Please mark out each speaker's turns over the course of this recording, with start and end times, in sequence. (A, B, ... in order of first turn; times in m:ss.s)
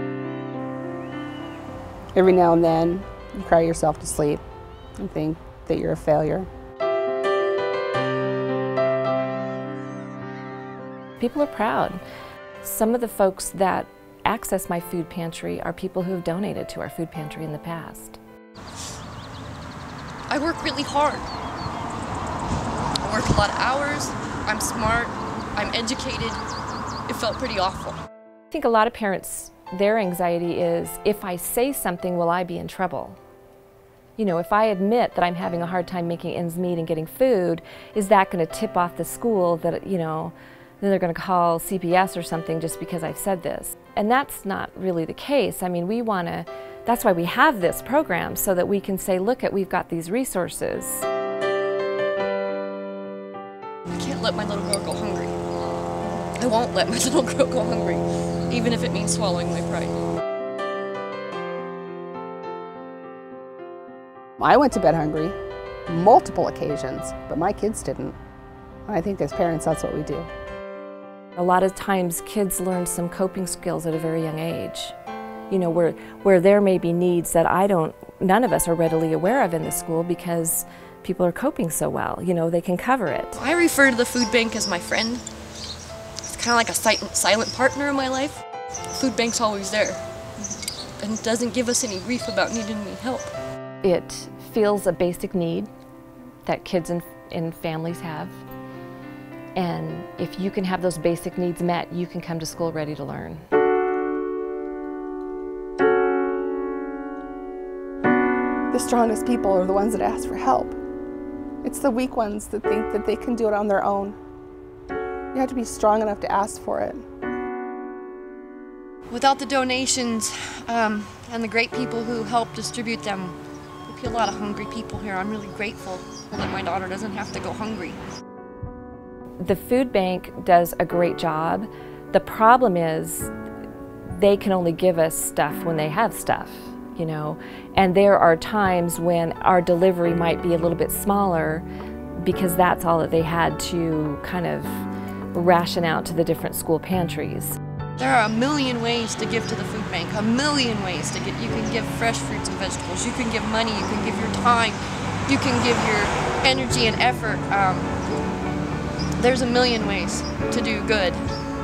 0:02.1-0:04.4 A
0:05.0-0:06.5 A
0:11.2-0:12.0 B
0:12.6-0:18.2 B
0:20.3-0:21.3 C
0:23.0-0:26.4 C
0:27.1-0:28.0 C
0:28.5-0:33.2 B
0:34.2-0:51.1 B
0:53.9-0:55.3 C
0:56.0-1:00.0 C
1:04.4-1:05.4 A
1:05.9-1:08.2 A
1:08.8-1:10.3 A
1:11.4-1:15.0 B
1:15.5-1:23.4 B
1:23.4-1:25.2 C
1:26.2-1:28.4 C
1:28.9-1:30.0 C
1:31.0-1:33.3 C
1:33.8-1:35.7 B
1:36.4-1:38.4 B
1:39.5-1:43.4 B
1:48.7-1:50.8 A
1:51.6-1:54.2 A
1:55.3-1:57.0 A
1:59.1-2:08.0 C
2:09.4-2:13.3 B
2:14.0-2:21.6 B
2:22.2-2:27.6 B
2:28.0-2:37.9 C
2:39.2-2:41.2 C